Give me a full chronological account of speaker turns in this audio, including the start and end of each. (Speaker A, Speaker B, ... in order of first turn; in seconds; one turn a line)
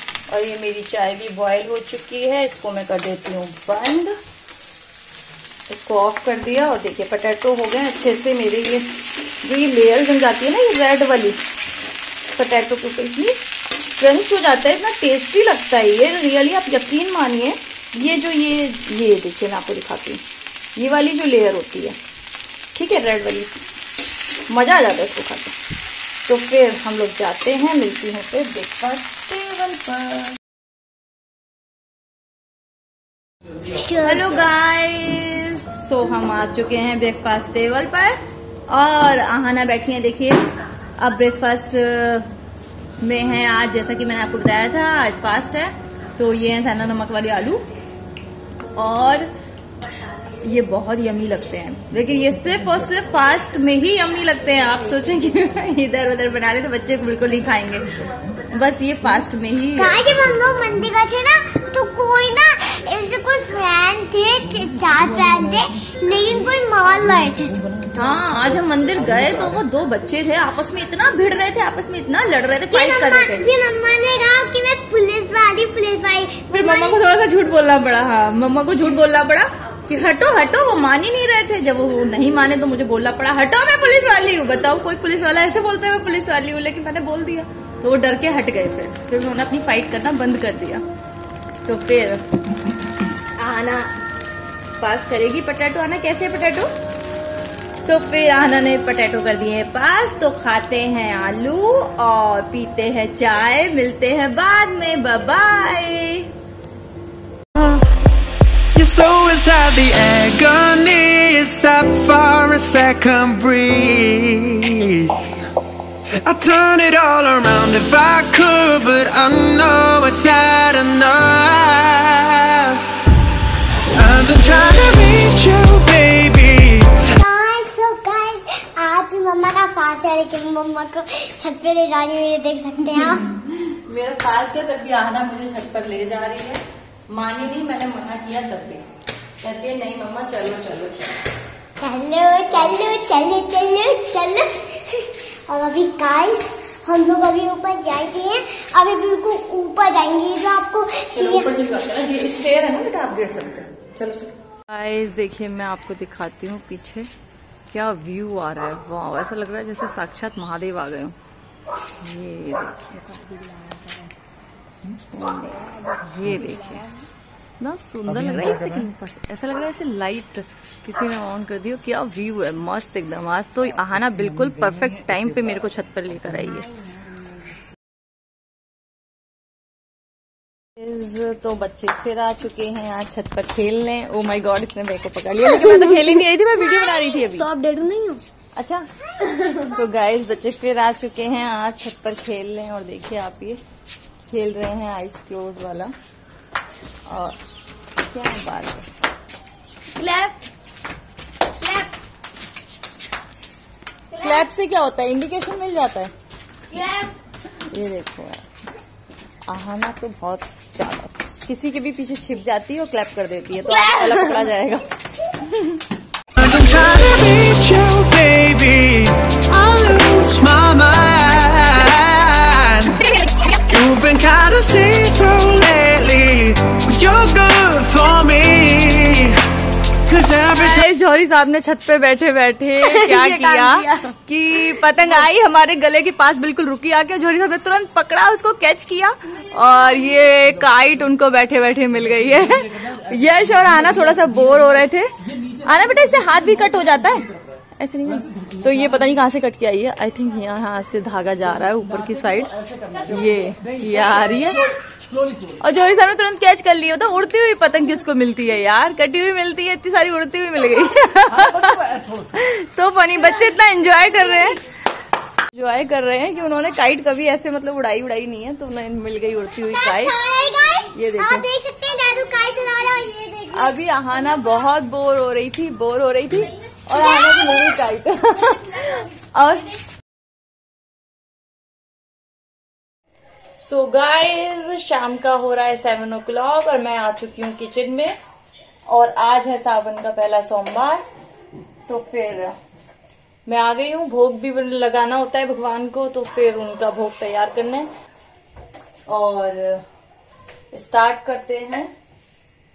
Speaker A: 0.3-4.1
Speaker A: 5.7-8.9
Speaker A: 9.4-11.4
Speaker A: 12.3-20.2
Speaker A: 20.8-22.0
Speaker A: 22.7-23.5
Speaker A: 24.5-25.6
Speaker A: 26.2-30.4
Speaker B: 33.7-34.5
Speaker A: 34.0-40.5
Speaker A: 41.0-42.3
Speaker A: 43.0-47.6
Speaker A: 48.7-49.3
Speaker A: 50.4-60.0
Speaker B: 59.8-67.6
Speaker A: 67.9-73.5
Speaker B: 72.7-77.1
Speaker A: 76.5-90.8
Speaker A: 91.6-92.2
Speaker A: 93.2-93.9
Speaker A: 94.8-96.7
Speaker A: 97.8-106.3
Speaker C: 107.5-107.8
Speaker C: 108.7-115.2
Speaker C: 116.2-122.8
Speaker C: 123.9-127.1
Speaker B: 127.2-133.3
Speaker A: 132.9-138.8
Speaker A: 139.4-141.1
Speaker B: 141.8-151.6
Speaker A: 142.5-142.8
Speaker A: 151.1-157.1
Speaker A: 157.7-161.2
Speaker A: 162.0-163.3
Speaker A: 165.1-166.9
Speaker A: 167.6-176.7
Speaker A: 180.8-187.5
Speaker D: 185.4-188.2
Speaker A: 188.6-188.9
Speaker D: 189.2-189.6
Speaker A: 189.6-193.6
Speaker A: 194.2-195.9
Speaker A: 197.1-197.4
Speaker A: 198.0-198.9
Speaker D: 199.9-200.3
Speaker D: 201.6-201.9
Speaker D: 204.1-204.5
Speaker A: 204.2-206.1
Speaker D: 206.7-207.1
Speaker A: 207.7-208.4
Speaker A: 209.4-215.8
Speaker D: 213.7-214.5
Speaker C: 216.4-223.0
Speaker C: 223.5-229.4
Speaker C: 230.1-230.8
Speaker A: 230.5-254.7
Speaker D: 232.8-234.1
Speaker A: 255.6-264.6
Speaker A: 265.5-270.2
Speaker B: 269.7-274.5
Speaker A: 270.9-271.4
Speaker A: 273.5-279.7
Speaker B: 276.9-277.6
Speaker A: 283.6-288.1
Speaker A: 288.9-291.0
Speaker A: 291.9-292.5
Speaker A: 293.4-297.9
Speaker A: 299.1-299.8
Speaker A: 300.7-301.9